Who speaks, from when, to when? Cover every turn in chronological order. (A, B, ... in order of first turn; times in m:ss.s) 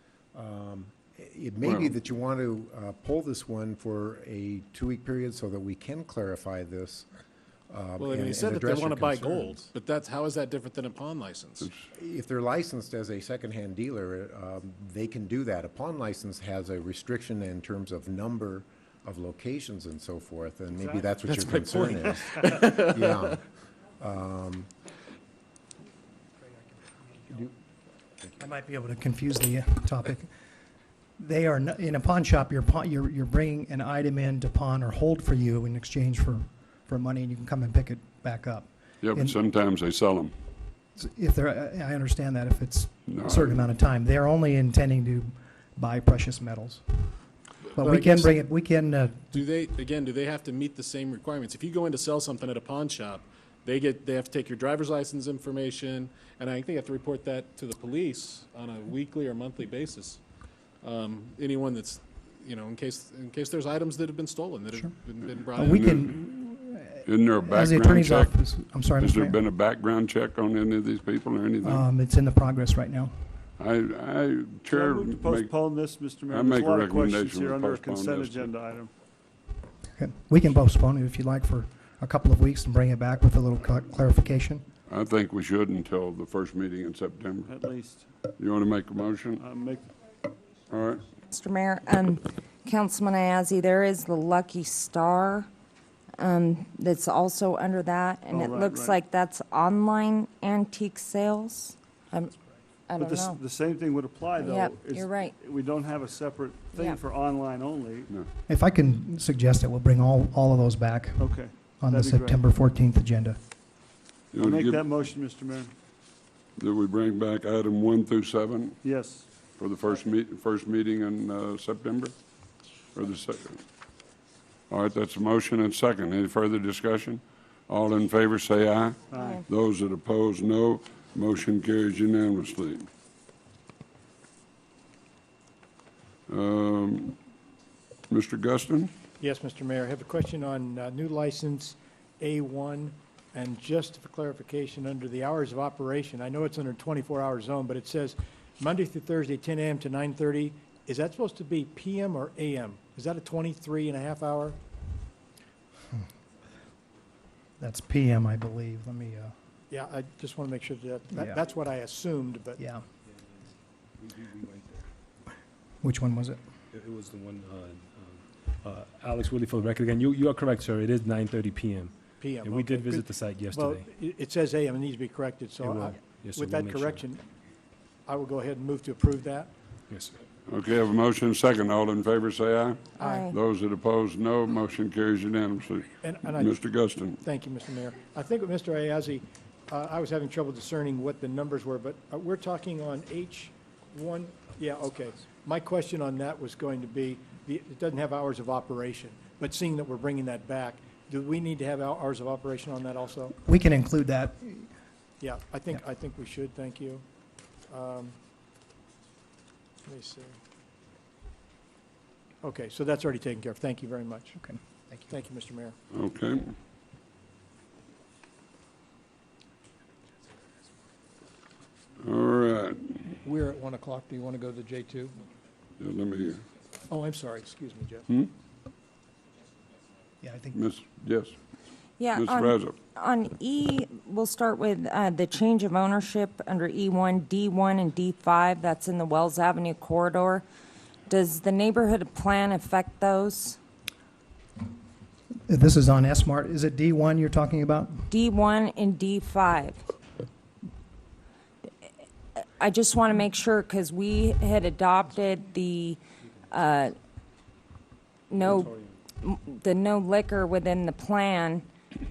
0:00.3-0:07.1 A
0:01.6-0:01.9 B
0:07.7-0:09.6 A
0:08.0-0:11.7 C
0:11.9-0:23.4 A
0:21.2-0:23.2 C
0:24.0-0:24.7 A
0:28.4-0:30.3 D
0:31.2-0:39.4 D
0:39.0-0:40.3 B
0:41.0-0:47.2 D
0:43.1-0:43.7 B
0:47.8-0:48.4 C
0:47.8-0:49.4 D
0:49.3-1:00.2 C
1:00.8-1:06.0 C
1:05.6-1:09.4 D
1:05.7-1:06.1 B
1:07.0-1:08.4 B
1:09.0-1:11.9 B
1:11.6-1:13.1 D
1:13.6-1:15.5 B
1:14.7-1:18.9 E
1:16.3-1:18.5 B
1:20.0-1:24.7 D
1:24.9-1:27.5 B
1:27.4-1:28.1 E
1:28.4-1:29.4 B
1:29.3-1:29.9 E
1:30.7-1:31.1 B
1:31.3-1:35.5 F
1:36.2-1:42.3 F
1:38.3-1:39.0 E
1:42.9-1:43.4 F
1:43.0-1:48.1 E
1:44.4-1:45.3 F
1:48.5-1:51.2 D
1:51.2-1:52.5 E
1:51.8-1:53.4 D
1:54.3-1:54.8 B
1:54.4-1:55.7 E
1:56.6-1:58.8 B
1:58.8-1:59.3 E
1:59.4-2:02.1 B
2:03.0-2:03.6 B
2:04.7-2:12.9 B
2:09.1-2:09.4 E
2:09.2-2:09.4 F
2:16.3-2:17.2 B
2:18.1-2:18.9 B
2:19.2-2:34.6 G
2:37.6-2:39.3 D
2:39.7-2:42.4 G
2:41.1-2:41.4 D
2:42.6-2:42.8 D
2:44.0-2:44.9 H
2:45.8-2:46.4 D
2:46.7-2:53.9 H
2:52.2-2:57.2 G
2:55.7-2:57.0 H
2:58.1-2:59.5 G
2:59.9-3:00.2 H
3:00.4-3:07.2 B
3:03.0-3:03.3 F
3:06.1-3:06.5 G
3:07.2-3:23.3 G
3:23.4-3:24.7 D
3:25.2-3:27.0 G
3:27.7-3:28.1 G
3:29.9-3:30.3 G
3:32.4-3:34.3 G
3:34.4-3:35.2 D
3:35.1-3:35.7 G
3:35.9-3:36.5 B
3:42.0-3:43.2 B
3:43.3-3:45.1 G
3:45.8-3:46.4 B
3:46.9-3:48.0 G
3:50.2-3:50.6 D
3:50.6-3:51.4 B
3:52.0-4:00.4 F
3:52.1-3:52.7 B
4:01.1-4:03.6 F
4:05.5-4:08.1 D
4:08.1-4:09.8 F
4:12.6-4:16.9 F
4:18.3-4:21.6 F
4:18.4-4:19.0 H